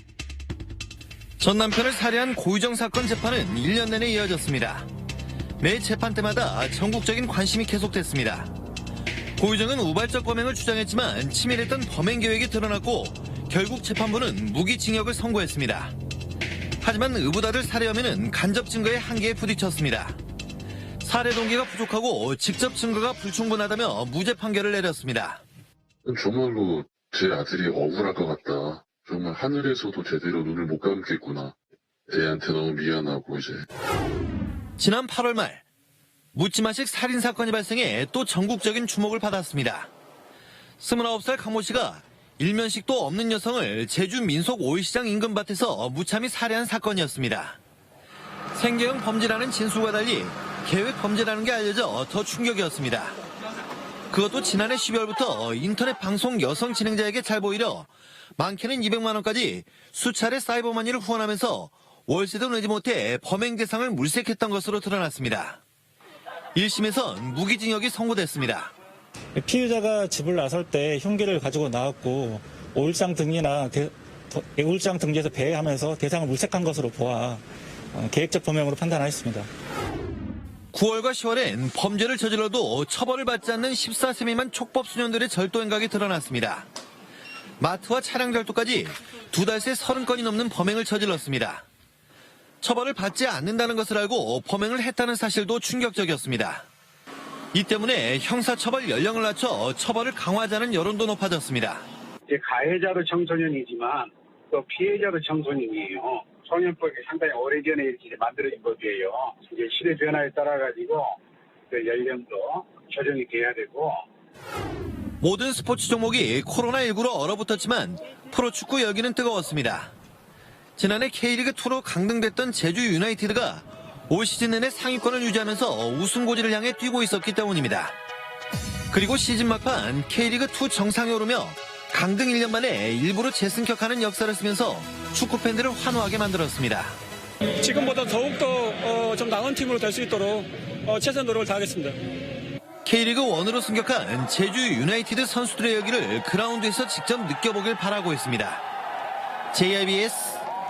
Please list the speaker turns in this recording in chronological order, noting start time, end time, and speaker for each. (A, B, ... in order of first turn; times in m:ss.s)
0:01.4-0:04.9 A
0:05.6-0:08.5 A
0:09.4-0:15.9 A
0:16.8-0:20.2 A
0:21.0-0:25.4 A
0:26.0-0:31.6 B
0:32.1-0:33.6 B
0:34.8-0:35.6 A
0:36.3-0:39.9 A
0:40.8-0:47.6 A
0:48.5-0:53.2 A
0:54.1-1:05.6 A
1:06.6-1:08.7 A
1:09.4-1:17.4 C
1:17.9-1:19.5 C
1:20.7-1:26.7 A
1:27.6-1:31.6 A
1:32.6-1:36.7 A
1:37.5-1:41.8 A
1:42.3-1:51.1 D
1:51.7-1:54.0 D
1:55.2-1:59.9 A
2:00.8-2:08.0 A
2:08.9-2:17.0 A
2:17.6-2:22.0 E
2:22.8-2:28.6 A
2:29.5-2:30.4 A